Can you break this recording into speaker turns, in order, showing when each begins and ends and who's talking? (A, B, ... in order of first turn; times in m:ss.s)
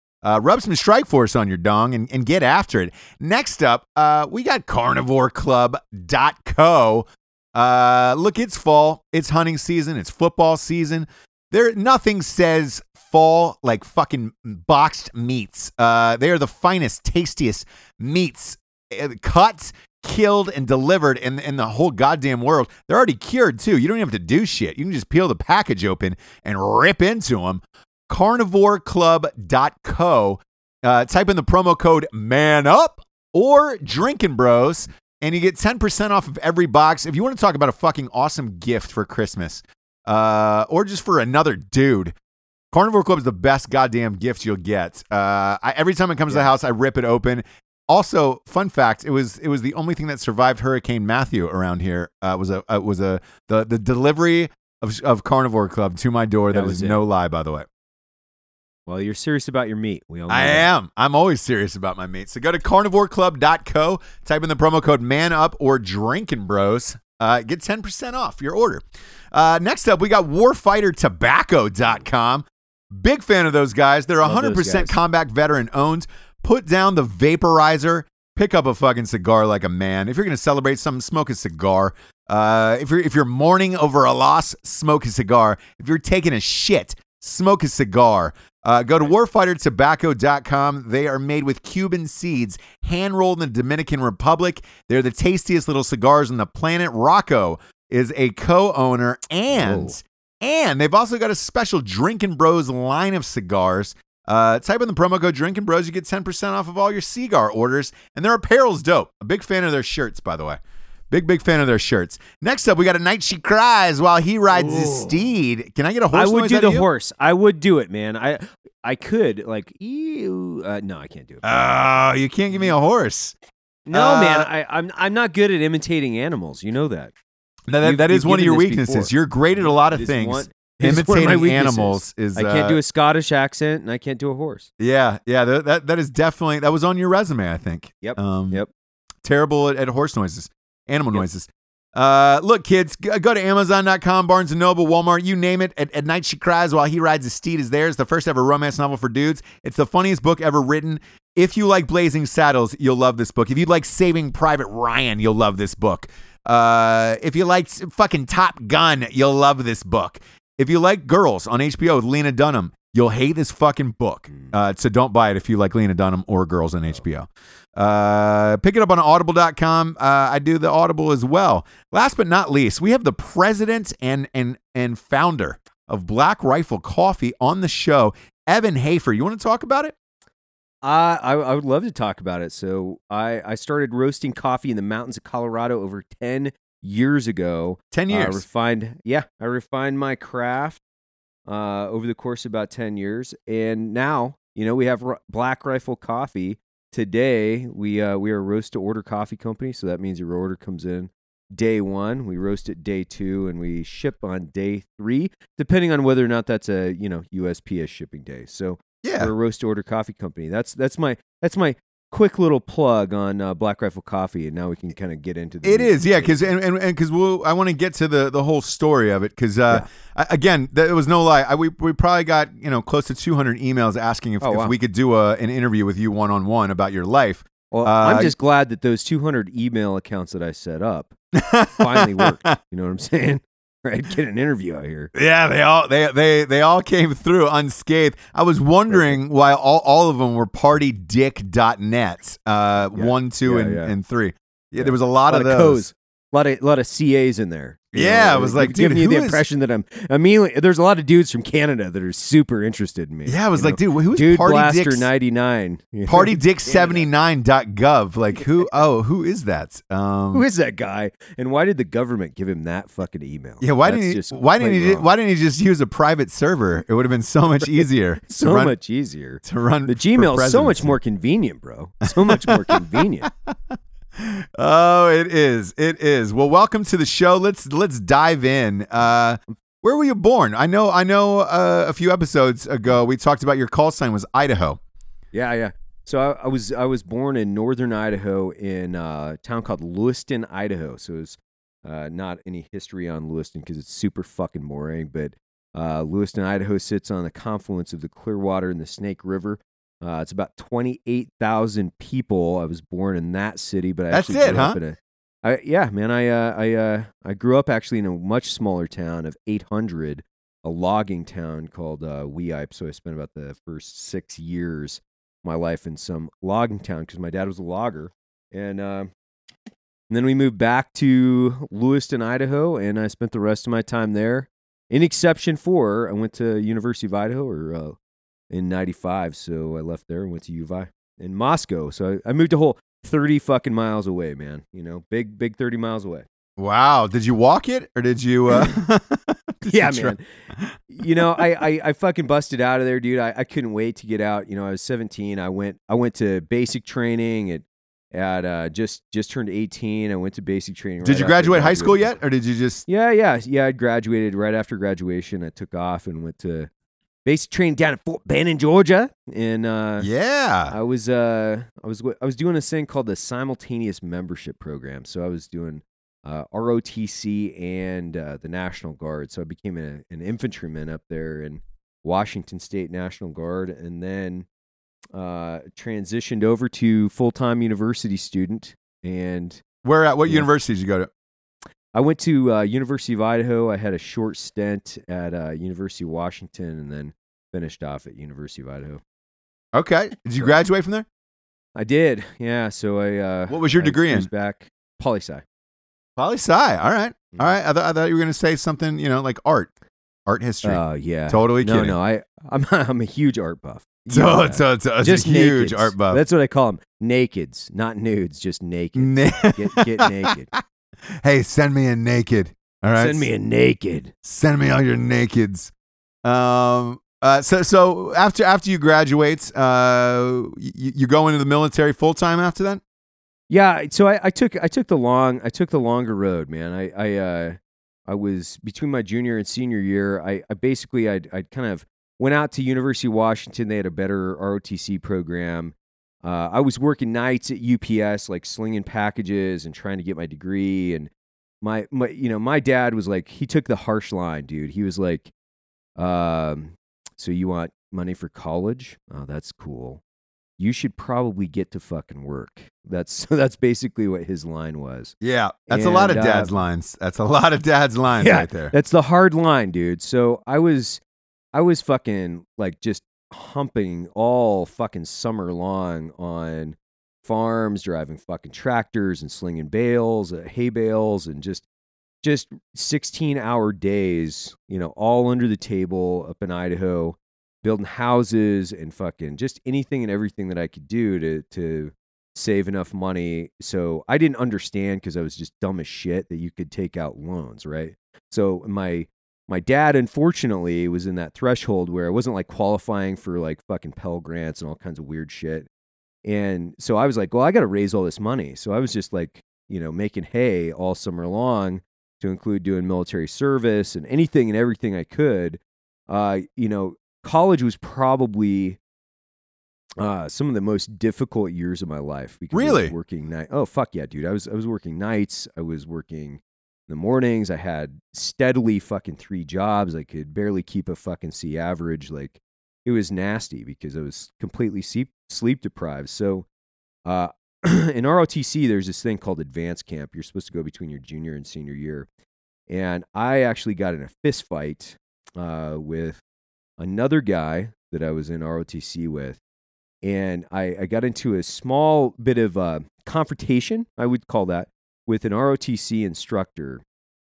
0:00.2-0:42.1 A
0:42.7-0:57.7 A
0:56.5-0:57.0 B
0:58.9-1:00.7 B
1:00.3-1:56.8 A
1:14.2-1:15.0 B
1:39.5-1:40.0 B
1:54.6-1:55.1 B
1:56.1-2:01.4 B
2:01.4-2:03.3 A
2:03.9-2:07.1 B
2:03.9-2:04.5 A
2:07.7-2:12.8 A
2:07.8-2:14.7 B
2:14.8-2:18.6 A
2:18.0-2:18.7 B
2:19.2-2:59.9 A
3:00.8-3:10.8 B
3:07.9-3:08.4 A
3:11.5-3:36.5 B
3:29.0-3:29.3 A
3:35.6-3:48.3 A
3:44.4-3:44.7 B
3:47.7-3:51.2 B
3:51.3-3:52.5 A
3:51.7-3:55.1 B
3:55.1-4:05.8 A
3:58.9-3:59.2 B
4:02.9-4:03.9 B
4:04.8-4:17.1 B
4:07.9-4:09.4 A
4:13.2-4:15.1 A
4:16.1-4:20.4 A
4:20.3-4:25.0 B
4:23.6-4:28.7 A
4:28.3-4:33.3 B
4:29.4-4:31.0 A
4:32.3-4:32.7 A
4:33.5-4:44.8 A
4:45.3-5:19.1 B
5:04.1-5:04.8 A
5:20.1-5:28.0 B
5:28.5-5:36.2 B
5:36.6-5:41.5 A
5:39.6-5:40.2 B
5:40.9-5:52.1 B
5:51.0-5:52.8 A
5:52.9-5:56.7 B
5:57.2-6:00.1 B
6:00.0-6:00.7 A
6:00.7-6:14.5 B
6:15.1-6:19.6 B
6:19.8-6:21.1 A
6:21.9-6:29.0 B
6:29.7-6:31.0 A
6:31.8-6:35.4 B
6:33.5-6:34.3 A
6:36.2-6:39.7 A
6:40.2-6:42.0 A
6:40.6-6:50.5 B
6:44.1-6:46.2 A
6:49.0-6:50.6 A
6:51.2-6:53.2 A
6:53.0-6:54.1 B
6:54.2-6:55.7 A
6:56.2-7:02.8 A
7:03.5-7:21.1 B
7:21.6-7:25.3 B
7:26.0-7:30.0 B
7:30.6-7:35.1 B
7:35.2-7:38.7 A
7:35.7-7:36.5 B
7:38.2-7:41.0 B
7:41.5-7:51.6 B
7:52.2-8:15.7 B
8:16.2-8:28.8 B
8:30.0-8:46.4 B
8:32.5-8:32.9 A
8:47.0-8:52.1 B
8:52.7-8:56.2 B
8:56.8-8:59.4 B
9:00.0-9:06.8 B